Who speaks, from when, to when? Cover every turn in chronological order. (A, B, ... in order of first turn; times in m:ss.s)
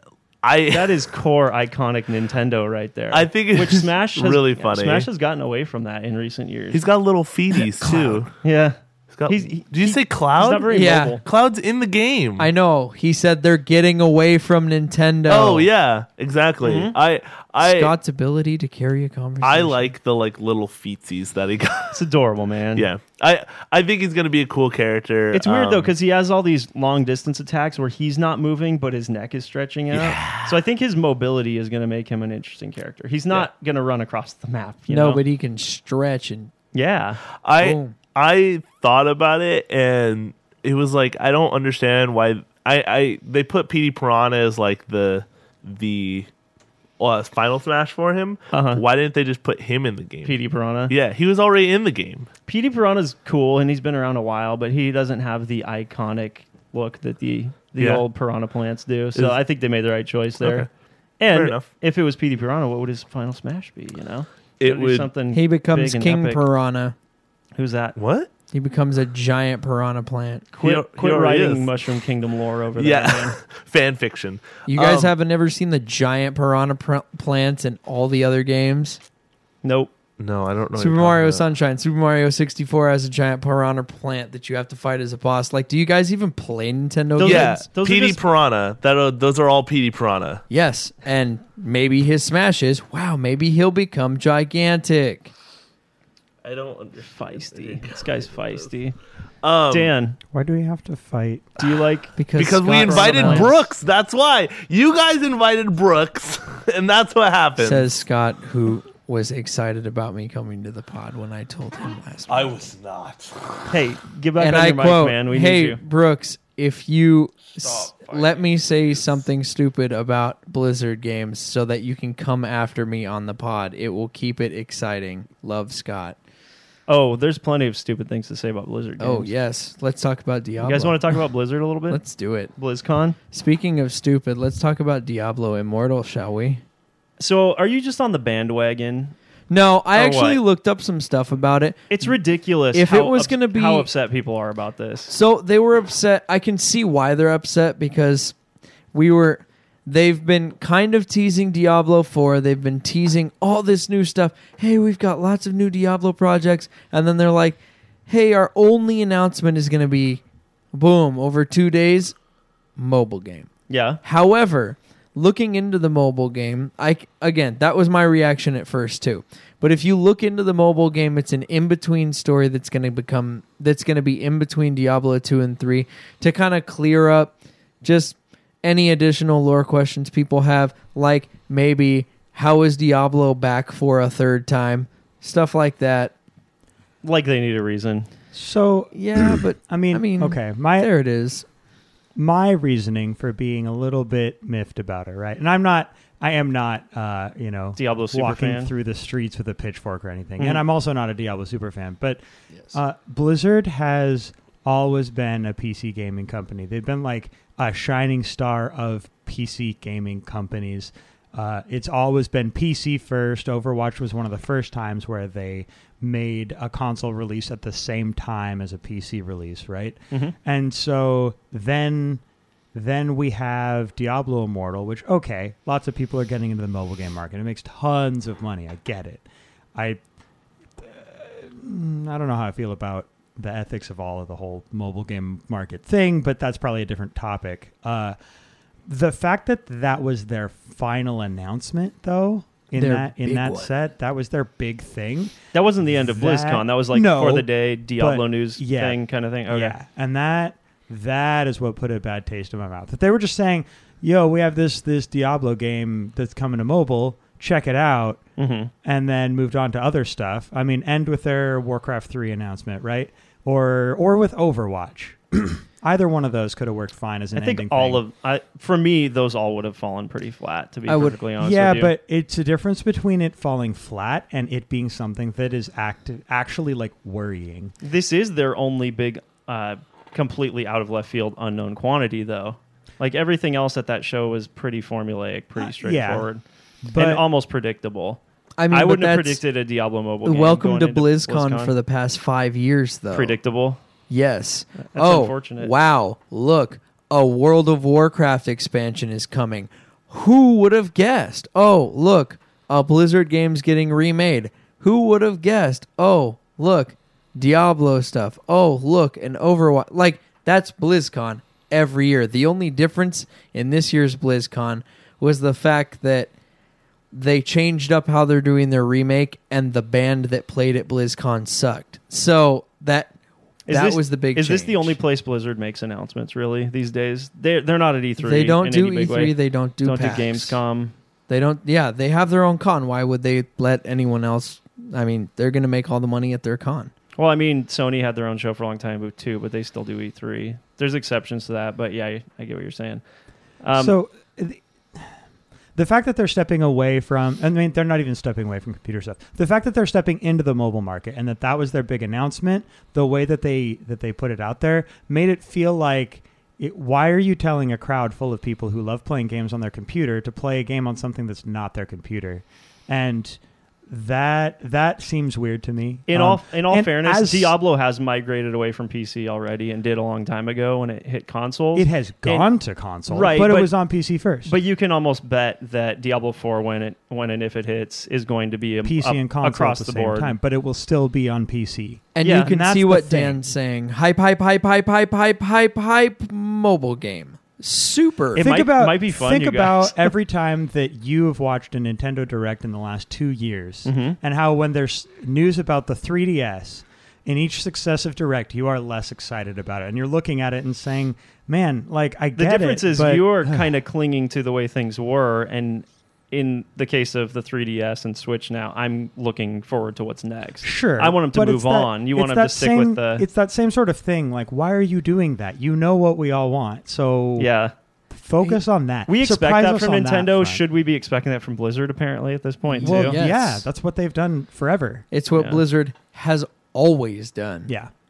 0:00.4-0:01.1 A
0:00.7-0:06.8 B
0:03.1-0:05.1 A
0:06.7-0:08.3 A
0:07.6-0:08.3 C
0:08.4-0:08.8 B
0:09.1-0:12.5 A
0:09.3-0:11.2 B
0:10.7-0:11.2 C
0:12.4-0:15.7 C
0:15.3-0:17.9 A
0:16.6-0:17.0 B
0:17.6-0:19.9 C
0:19.4-0:22.0 A
0:21.9-0:22.9 B
0:22.8-0:25.9 A
0:25.3-0:35.2 B
0:29.9-0:30.6 A
0:34.9-0:36.5 C
0:36.7-0:37.2 B
0:37.4-0:46.3 A
0:37.6-0:38.0 C
0:47.0-0:50.4 A
0:48.5-0:48.8 B
0:50.2-0:50.9 B
0:50.9-0:52.3 A
0:52.5-1:00.7 B
0:57.8-0:58.0 A
1:00.4-1:00.7 A
1:01.2-1:06.4 B
1:01.3-1:01.7 A
1:04.6-1:05.1 A
1:05.3-1:07.0 C
1:07.6-1:08.0 B
1:08.0-1:08.3 A
1:08.5-1:10.5 C
1:10.5-1:13.4 B
1:10.6-1:11.7 A
1:12.8-1:15.1 A
1:14.7-1:19.0 C
1:19.6-1:19.9 B
1:20.2-1:21.4 A
1:20.8-1:27.6 C
1:27.2-1:28.2 B
1:27.2-1:30.4 A
1:30.5-1:35.3 C
1:36.4-1:38.7 A
1:37.0-1:39.0 B
1:39.4-1:39.9 A
1:39.7-1:40.2 B
1:40.3-1:41.6 D
1:41.6-1:42.2 B
1:42.2-1:43.6 C
1:42.4-1:47.9 A
1:42.7-1:43.6 B
1:47.6-1:52.6 C
1:52.3-1:53.7 A
1:53.7-1:55.8 B
1:54.4-2:06.2 C
1:57.6-1:59.2 A
2:06.9-2:09.3 B
2:09.0-2:11.2 C
2:10.6-2:12.0 B
2:11.9-2:12.5 C
2:12.6-2:13.2 B
2:13.3-2:16.6 C
2:17.2-2:19.2 B
2:19.5-2:22.2 C
2:19.9-2:20.4 B
2:21.9-2:25.1 B
2:22.7-2:23.9 C
2:25.1-2:28.4 C
2:28.9-2:40.2 C
2:40.7-2:42.2 C
2:42.8-2:43.5 C
2:43.7-2:44.0 B
2:44.0-3:06.1 C
3:07.0-3:08.1 B
3:08.3-3:10.9 D
3:08.9-3:11.4 C
3:12.2-3:22.2 D
3:17.8-3:18.7 B
3:22.7-3:42.2 D
3:42.7-3:50.0 D
3:50.8-3:58.2 D
3:58.9-4:09.0 D
4:02.7-4:03.7 C
4:05.5-4:09.8 B
4:09.5-4:18.2 D
4:18.4-4:18.7 B
4:18.8-4:28.0 D
4:27.4-4:31.9 B
4:30.9-4:37.7 D
4:37.8-4:46.4 B
4:45.6-4:46.3 D
4:46.8-4:47.2 D
4:47.0-4:51.8 B
4:48.6-4:49.4 C
4:50.2-4:53.4 C
4:53.1-4:53.8 B
4:54.1-5:16.3 C
4:54.9-4:55.7 B
5:17.1-5:23.1 C
5:23.7-5:30.9 B
5:23.7-5:25.0 C
5:28.2-5:30.6 C
5:31.3-5:36.9 C
5:37.2-5:43.0 B
5:43.6-5:44.0 B
5:43.8-5:45.1 D
5:45.8-6:07.5 D
6:06.1-6:12.5 B
6:11.8-6:14.5 D
6:13.1-6:13.7 B
6:14.5-6:20.3 B
6:18.8-6:23.4 D
6:22.2-6:28.5 C
6:22.2-6:22.6 B
6:28.4-6:30.1 B
6:28.4-6:43.7 D
6:33.9-6:34.2 B
6:42.4-6:53.3 B
6:50.6-6:57.5 D
6:57.4-6:57.7 B
6:58.1-7:00.6 D
6:59.1-7:03.2 B
7:02.7-7:03.7 C
7:02.8-7:05.1 D
7:05.1-7:07.7 C
7:05.4-7:05.6 B